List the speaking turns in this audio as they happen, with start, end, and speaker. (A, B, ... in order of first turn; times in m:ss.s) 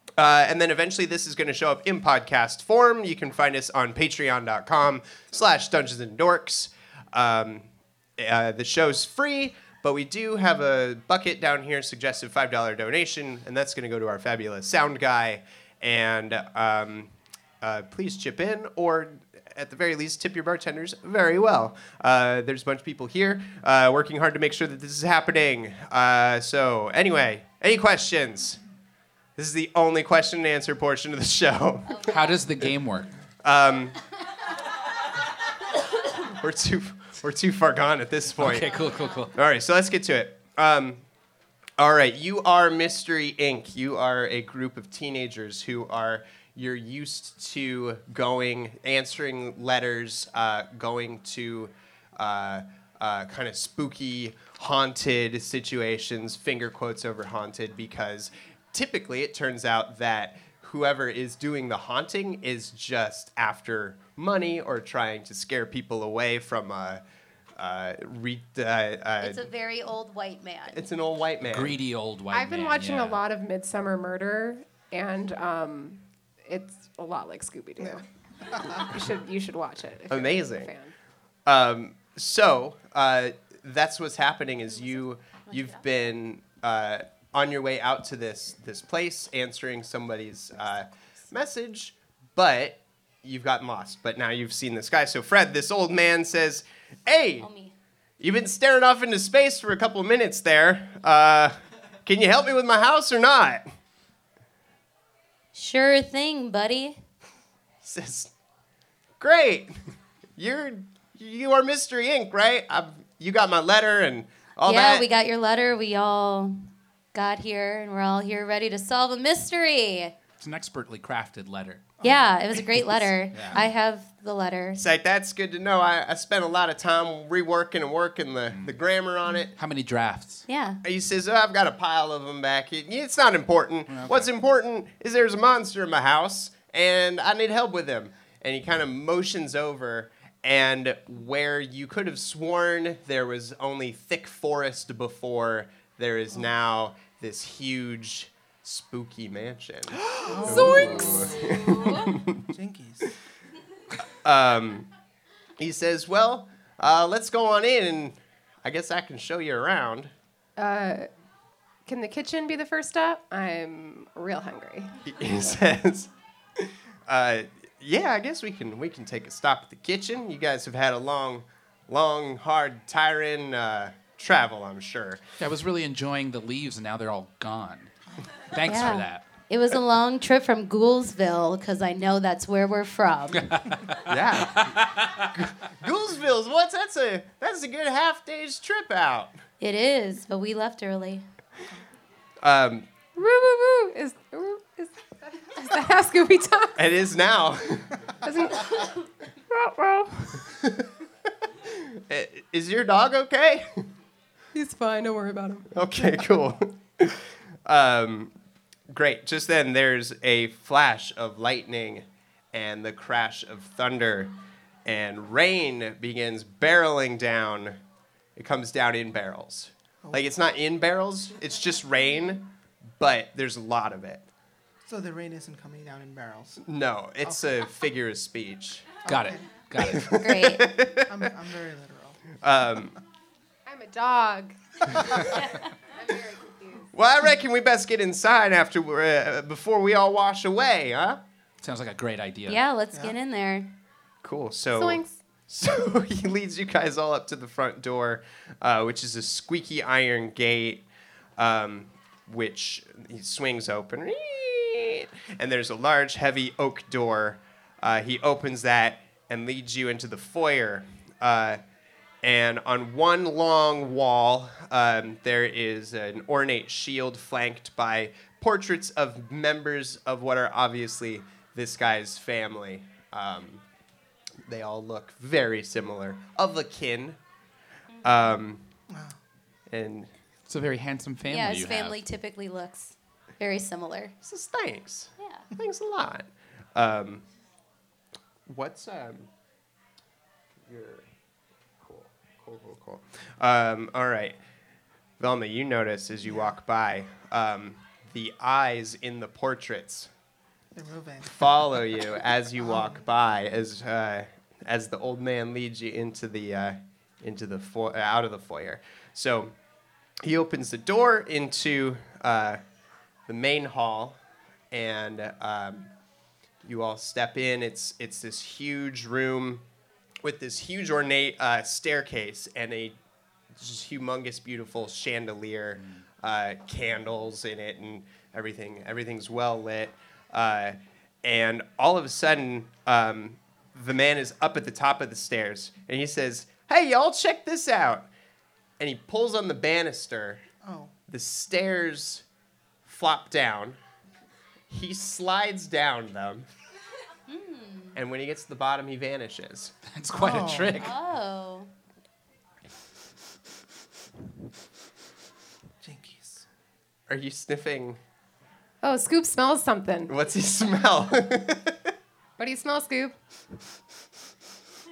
0:00.2-0:28.6 A
0:29.4-0:32.2 A
0:32.0-0:33.1 B
0:33.4-0:34.0 A
0:36.0-0:41.0 A
0:38.4-0:39.3 B
0:41.8-1:07.0 A
1:07.6-1:09.5 A
1:09.2-1:10.9 C
1:10.7-1:11.8 A
1:11.4-1:13.2 B
1:12.3-1:18.0 D
1:18.6-1:20.9 D
1:20.1-1:20.7 A
1:21.5-1:37.5 A
1:25.5-1:25.8 C
1:37.4-1:37.7 C
1:38.2-1:43.7 A
1:45.5-1:47.0 C
1:47.8-1:48.3 A
1:49.2-1:49.8 A
1:50.4-1:55.1 A
1:54.6-2:00.1 C
2:00.4-2:01.9 B
2:02.0-2:02.3 E
2:02.0-2:04.8 C
2:03.3-2:03.6 B
2:04.8-2:09.6 A
2:09.6-2:10.4 B
2:10.5-2:10.8 C
2:10.8-2:32.5 A
2:13.9-2:14.3 B
2:30.2-2:33.1 E
2:30.8-2:31.3 B
2:34.2-2:34.9 A
2:35.6-2:40.1 A
2:40.6-2:41.1 D
2:41.9-2:45.0 D
2:45.0-2:55.2 A
2:55.4-2:57.9 B
2:58.5-2:59.2 B
2:58.6-3:03.7 C
3:03.4-3:05.3 B
3:04.0-3:09.3 A
3:09.6-3:11.2 C
3:12.4-3:12.9 A
3:13.2-3:16.8 D
3:16.8-3:18.1 A
3:18.2-3:20.4 D
3:20.4-3:20.9 A
3:21.4-3:23.9 A
3:24.5-3:25.7 D
3:25.7-3:28.3 A
3:28.9-3:37.8 A
3:38.4-3:44.2 A
3:40.0-3:40.3 E
3:44.8-3:46.6 E
3:46.6-3:49.0 A
3:49.0-3:49.4 E
3:49.1-3:50.1 B
3:49.8-3:51.3 A
3:50.1-3:50.7 C
3:51.1-3:52.2 E
3:52.4-3:53.0 A
3:53.7-3:56.9 D
3:56.9-4:01.2 A
4:01.6-4:02.6 B
4:02.5-4:03.7 C
4:04.2-4:10.9 A
4:04.8-4:05.2 D
4:11.4-4:21.6 A
4:22.2-4:33.6 A
4:34.4-4:37.2 A
4:38.0-4:38.7 A
4:38.9-4:39.2 E
4:39.7-4:40.1 A
4:40.5-4:42.0 B
4:41.3-4:44.1 C
4:44.2-4:47.2 A
4:45.2-4:45.4 C
4:48.5-4:49.3 A
4:50.7-4:51.1 A
4:51.8-4:54.4 A
4:55.2-5:00.1 A
4:56.3-4:56.5 E
5:00.8-5:01.5 E
5:01.2-5:09.5 A
5:02.6-5:03.0 E
5:10.2-5:12.6 A
5:13.3-5:14.2 A
5:14.7-5:15.9 A
5:16.6-5:19.6 A
5:20.2-5:23.0 A
5:23.5-5:38.1 A
5:38.8-5:40.4 A
5:40.6-5:40.9 E
5:41.1-5:42.2 A
5:42.8-5:43.8 A
5:44.7-5:46.5 A
5:47.3-5:48.0 C
5:48.0-5:49.8 A
5:49.9-5:51.0 B
5:50.1-5:50.8 E
5:50.8-5:51.7 C
5:55.8-5:56.4 E
5:57.1-5:58.0 A
5:58.8-6:00.1 D
6:00.1-6:01.9 A
6:02.4-6:03.1 D